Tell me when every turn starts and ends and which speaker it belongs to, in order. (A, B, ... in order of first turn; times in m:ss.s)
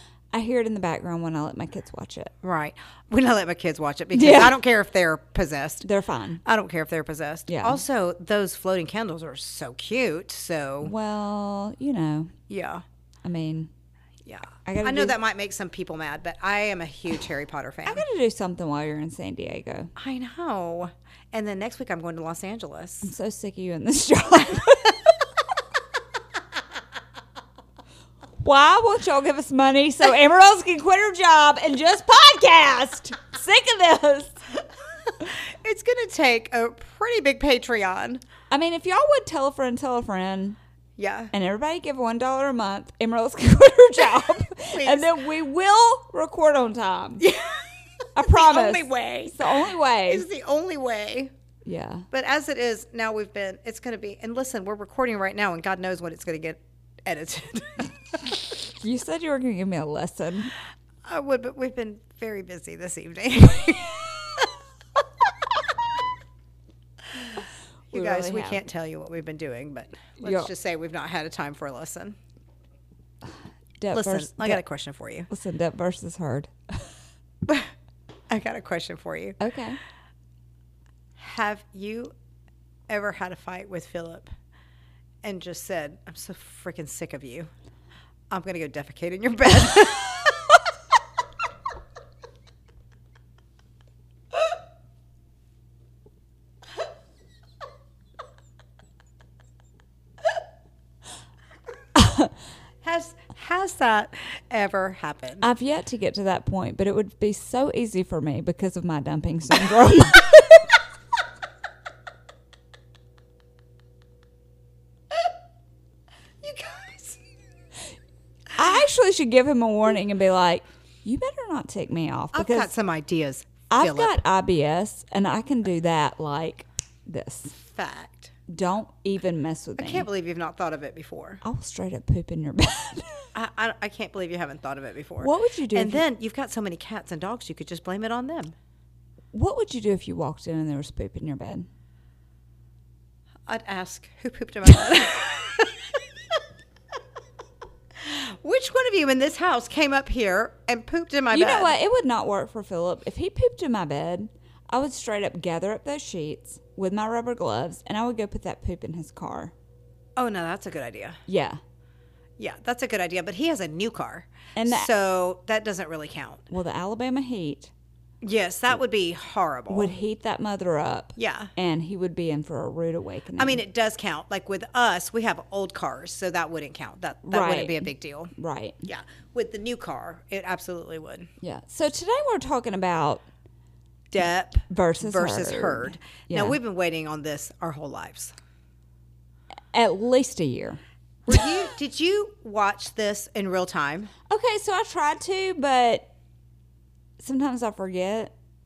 0:00.3-0:02.3 A
0:02.4-0:05.9 B
0:04.1-0:04.6 A
0:05.8-0:06.4 A
0:06.4-0:10.9 B
0:07.5-0:07.8 A
0:10.8-0:12.3 A
0:12.5-0:12.8 B
0:13.2-0:13.7 A
0:14.2-0:18.1 B
0:14.6-0:15.2 A
0:17.9-0:19.9 A
0:20.0-0:23.1 B
0:23.0-0:25.1 A
0:28.4-0:34.4 A
0:35.2-0:38.2 B
0:38.5-0:40.6 A
0:41.0-0:41.3 B
0:41.3-0:47.3 A
0:44.7-0:45.1 B
0:47.2-0:51.3 B
0:48.2-0:50.3 A
0:51.6-0:52.1 A
0:52.1-0:58.5 B
0:58.8-1:00.6 A
1:01.0-1:04.5 B
1:05.3-1:05.6 B
1:07.1-1:12.2 B
1:07.9-1:08.6 A
1:10.2-1:10.5 A
1:13.8-1:14.6 A
1:13.9-1:15.3 B
1:15.3-1:16.9 A
1:17.5-1:17.7 B
1:18.3-1:19.4 B
1:19.4-1:19.8 A
1:21.2-1:22.1 B
1:22.9-1:24.3 B
1:25.2-1:27.5 B
1:28.3-1:30.6 B
1:42.0-1:42.3 A
1:42.8-1:45.5 B
1:45.4-1:50.7 A
1:56.4-1:57.2 B
1:58.6-2:02.7 A
2:02.3-2:04.2 B
2:03.7-2:07.6 A
2:07.6-2:08.3 B
2:08.5-2:10.1 A
2:09.8-2:11.4 B
2:11.4-2:13.3 A
2:13.4-2:18.6 B
2:15.2-2:16.0 A
2:19.3-2:21.7 A
2:23.5-2:26.4 B
2:28.0-2:31.7 B
2:31.3-2:39.5 A
2:40.2-2:41.2 B
2:41.3-2:41.6 A
2:42.4-2:46.5 B
2:44.6-2:44.9 A
2:46.5-2:47.7 A
2:48.2-2:49.9 B
2:49.7-2:53.6 A
2:51.2-2:51.5 B
2:53.4-2:58.3 B
2:57.3-2:58.9 A
2:58.8-3:01.3 B
3:01.4-3:03.2 A
3:04.1-3:08.3 B
3:04.7-3:06.6 A
3:09.7-3:10.8 A
3:11.3-3:14.1 B
3:14.3-3:16.1 A
3:17.2-3:18.3 A